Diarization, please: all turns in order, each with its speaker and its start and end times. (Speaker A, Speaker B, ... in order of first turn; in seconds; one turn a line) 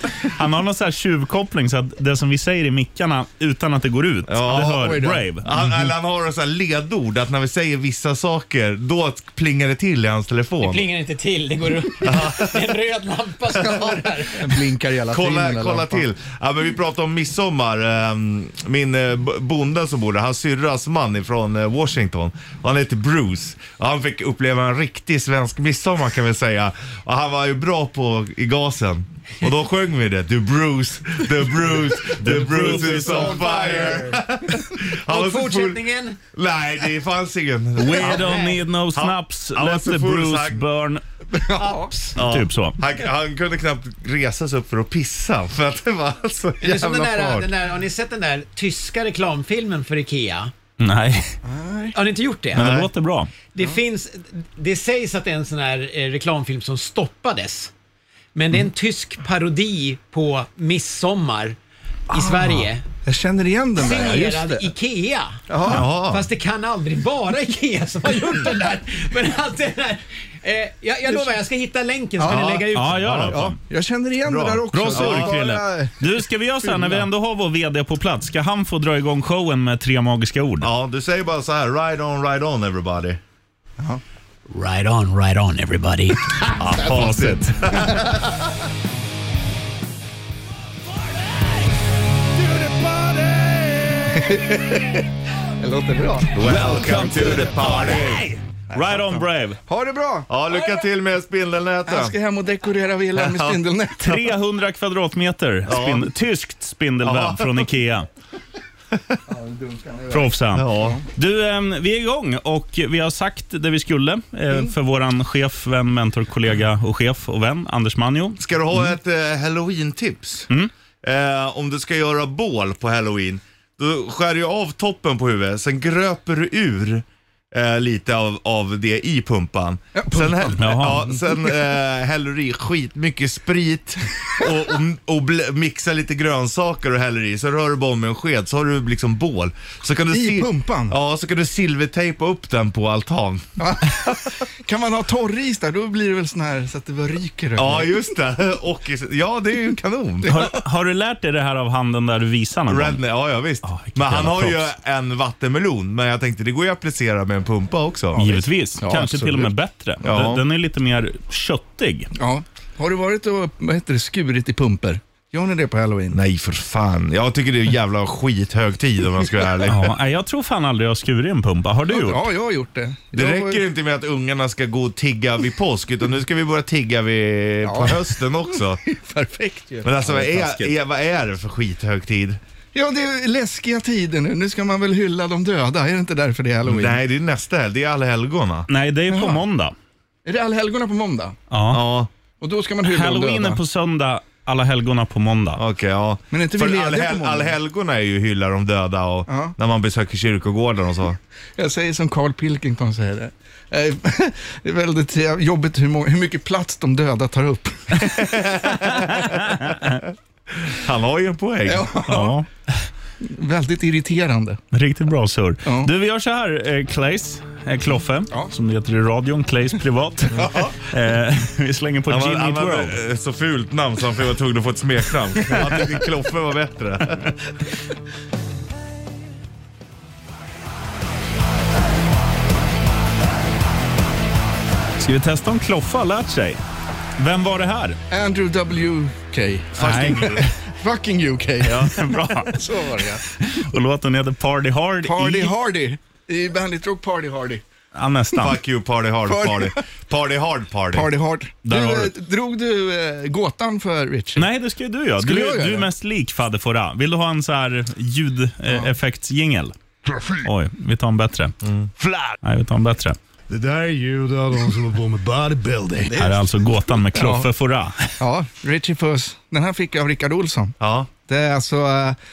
Speaker A: 0.2-5.5
Speaker B: 4.3-10.8
Speaker C: 4.5-5.2
Speaker D: 10.6-14.6
Speaker B: 12.0-12.7
Speaker C: 13.5-16.0
Speaker B: 15.1-40.6
Speaker A: 32.2-33.5
Speaker D: 32.8-34.2
Speaker C: 33.5-34.0
Speaker D: 35.1-36.2
Speaker A: 37.8-41.0
Speaker D: 38.0-38.6
Speaker C: 41.3-42.1
Speaker B: 42.1-47.5
Speaker A: 42.2-42.8
Speaker D: 46.6-50.5
Speaker A: 50.8-51.3
Speaker C: 51.4-52.0
Speaker D: 51.9-52.7
Speaker B: 52.5-52.9
Speaker A: 52.5-53.3
Speaker D: 53.5-57.7
Speaker D: 58.3-61.6
Speaker D: 62.1-62.8
Speaker C: 63.0-64.7
Speaker D: 63.8-65.4
Speaker C: 65.5-65.8
Speaker B: 65.7-66.3
Speaker D: 66.0-73.3
Speaker C: 72.2-77.1
Speaker B: 72.3-72.7
Speaker A: 72.7-73.6
Speaker B: 74.2-75.3
Speaker A: 74.7-80.7
Speaker B: 80.6-83.2
Speaker D: 84.5-86.6
Speaker B: 86.6-88.5
Speaker A: 86.8-87.5
Speaker C: 94.0-95.0
Speaker C: 95.6-97.1
Speaker B: 96.3-98.2
Speaker A: 96.7-97.2
Speaker C: 98.7-100.3
Speaker A: 98.7-99.6
Speaker B: 100.3-102.1
Speaker C: 101.9-104.2
Speaker B: 103.2-103.6
Speaker A: 104.0-108.1
Speaker B: 105.7-106.1
Speaker B: 107.0-107.7
Speaker B: 108.9-109.2
Speaker C: 109.3-111.0
Speaker A: 110.1-118.4
Speaker B: 110.5-111.0
Speaker B: 118.4-120.5
Speaker B: 121.0-144.1
Speaker C: 129.9-131.2
Speaker A: 130.6-131.0
Speaker C: 140.1-140.9
Speaker C: 143.6-148.0
Speaker B: 147.6-150.3
Speaker C: 150.2-150.6
Speaker A: 150.3-153.0
Speaker B: 152.7-158.3
Speaker A: 153.6-154.7
Speaker C: 158.1-159.5
Speaker A: 158.2-162.1
Speaker B: 160.0-160.4
Speaker C: 162.2-166.2
Speaker B: 166.1-169.9
Speaker A: 169.7-172.3
Speaker C: 171.9-173.6
Speaker B: 173.1-178.8
Speaker C: 177.6-180.3
Speaker B: 179.8-182.4
Speaker A: 180.4-180.7
Speaker C: 182.7-187.0
Speaker B: 186.7-188.7
Speaker A: 188.7-189.7
Speaker C: 189.1-189.4
Speaker C: 190.2-191.3
Speaker A: 191.5-191.9
Speaker B: 191.7-192.1
Speaker C: 192.4-193.6
Speaker A: 192.8-195.6
Speaker B: 195.6-201.2
Speaker C: 196.3-197.6
Speaker C: 199.3-199.5
Speaker C: 201.6-208.0
Speaker B: 207.9-209.6
Speaker A: 208.8-210.0
Speaker B: 210.6-211.9
Speaker C: 211.7-212.3
Speaker A: 212.1-212.5
Speaker C: 213.2-214.6
Speaker A: 214.7-223.0
Speaker C: 215.6-215.9
Speaker B: 220.3-220.6
Speaker C: 220.4-220.7
Speaker B: 222.1-227.3
Speaker A: 235.0-236.6
Speaker A: 237.2-238.0
Speaker C: 238.1-241.9
Speaker B: 239.8-240.5
Speaker A: 239.8-240.5
Speaker B: 241.6-241.9
Speaker A: 241.7-245.5
Speaker C: 242.5-243.3
Speaker C: 245.0-247.6
Speaker A: 247.9-248.6
Speaker B: 248.4-251.1
Speaker C: 249.2-249.8
Speaker C: 250.9-254.5
Speaker A: 251.6-252.1
Speaker A: 254.3-259.7
Speaker C: 255.2-255.9
Speaker E: 260.1-260.5
Speaker A: 260.4-261.5
Speaker B: 261.6-261.9
Speaker A: 262.4-263.2
Speaker E: 263.5-266.2
Speaker C: 266.1-266.4
Speaker A: 266.2-268.1
Speaker C: 267.1-267.5
Speaker C: 268.2-270.7
Speaker B: 270.8-271.1
Speaker C: 271.3-272.2